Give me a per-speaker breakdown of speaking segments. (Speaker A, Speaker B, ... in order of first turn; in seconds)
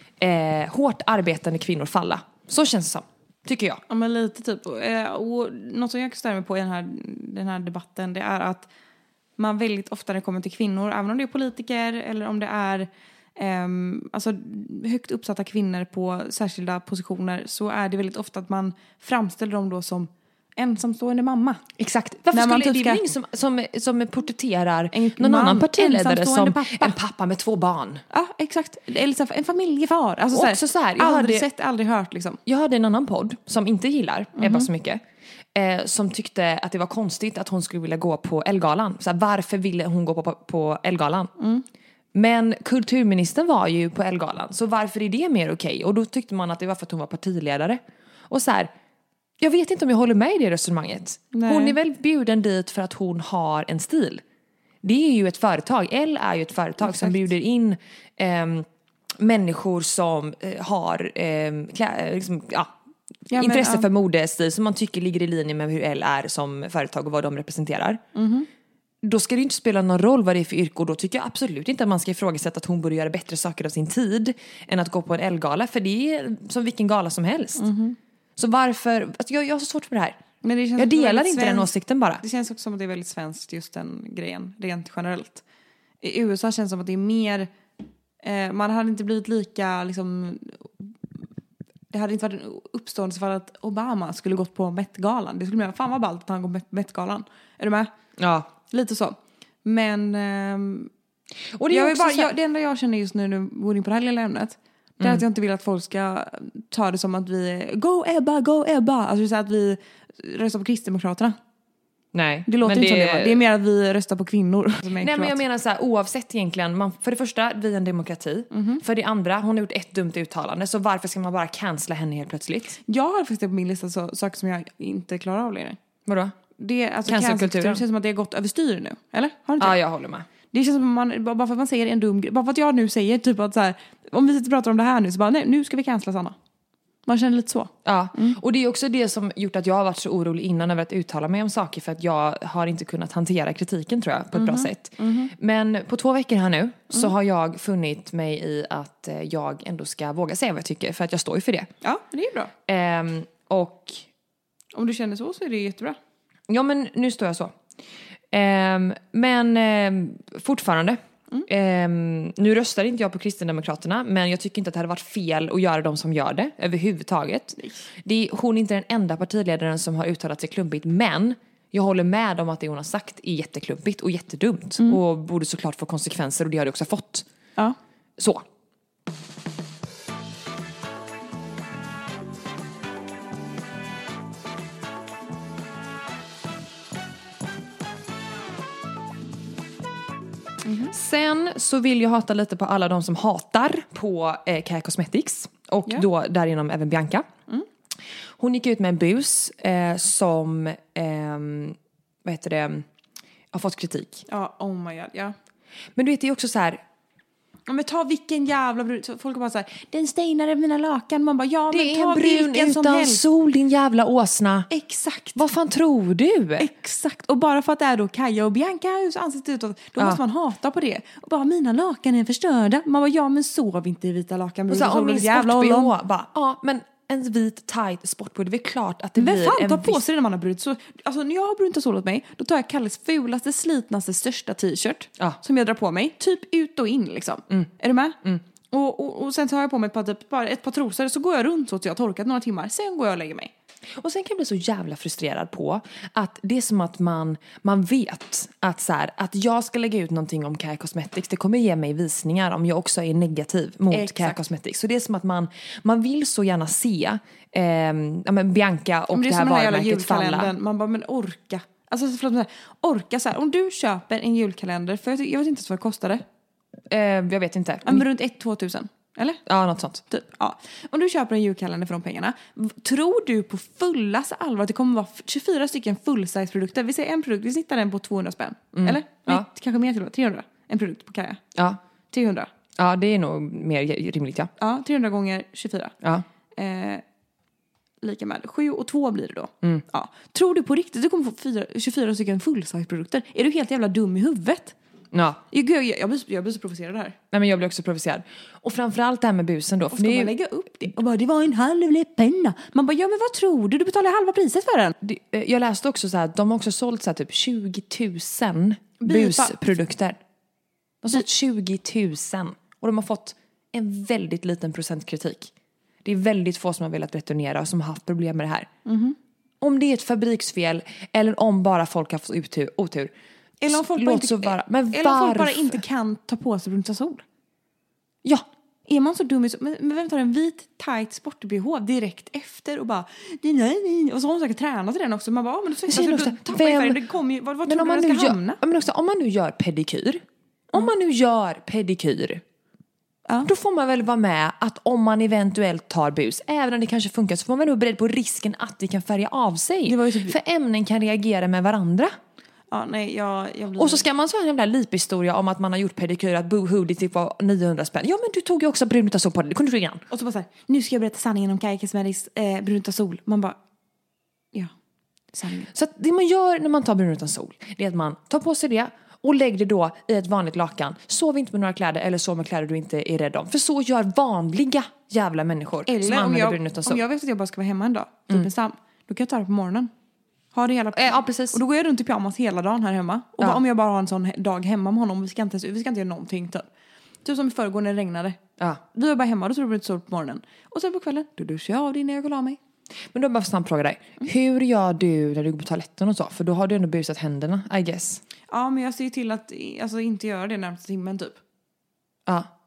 Speaker A: 0.2-3.8, 21.8-28.0, 30.3-31.5, 32.4-35.0, 35.5-41.3, 42.1-48.7, 49.4-54.2, 54.8-62.7, 63.3-68.0, 69.0-77.7, 78.4-80.2, 80.8-82.2, 98.2-98.5, 101.5-102.3, 112.1-113.4, 115.0-122.8, 126.0-126.3, 127.0-127.8, 129.6-130.3, 137.8-151.7, 152.7-154.0, 156.5-157.5, 158.3-177.2, 178.2-178.4, 190.9-197.3, 198.4-202.8, 203.5-204.2, 205.9-206.8, 211.7-214.7, 215.3-216.7, 224.7-230.0, 244.0-260.5, 266.9-268.0, 269.4-270.0, 278.7-279.4, 281.5-281.8, 282.8-284.5, 295.1-295.4, 297.3-300.3, 305.0-310.2, 311.0-315.5, 316.0-318.7, 319.6-323.1, 323.7-325.8, 335.9-337.0, 337.6-342.4, 343.4-352.1, 353.8-360.0, 365.7-377.0, 380.9-381.6, 393.1-398.2
Speaker B: 3.9-8.7, 9.4-21.6, 22.3-23.0, 24.9-26.9, 28.1-32.4, 34.4-34.7, 41.4-41.6, 51.3-51.8, 56.8-57.2, 63.3-63.9, 68.1-68.5, 77.6-78.0, 80.4-85.4, 86.0-87.5, 88.2-90.9, 91.9-97.9, 98.7-100.9, 101.7-111.3, 112.5-115.4, 118.5-118.8, 122.8-125.8, 126.6-129.8, 130.5-136.3, 137.1-138.4, 144.3-145.3, 151.8-152.5, 154.7-156.0, 167.6-167.8, 190.6-190.9, 204.3-205.3, 207.7-213.2, 214.7-215.5, 216.6-225.9, 229.2-238.2, 238.7-243.5, 253.9-254.4, 259.1-266.2, 267.8-269.4, 270.1-281.4, 282.1-282.5, 284.6-285.9, 286.6-287.0, 288.0-294.7, 295.5-297.1, 299.9-304.9, 309.0-309.7, 318.9-319.1, 323.6-327.2, 328.9-338.6, 349.9-350.4, 352.7-354.0, 360.1-363.6, 365.3-365.7, 375.9-379.9, 380.5-386.7, 387.2-388.4, 388.9-392.6, 398.5-401.4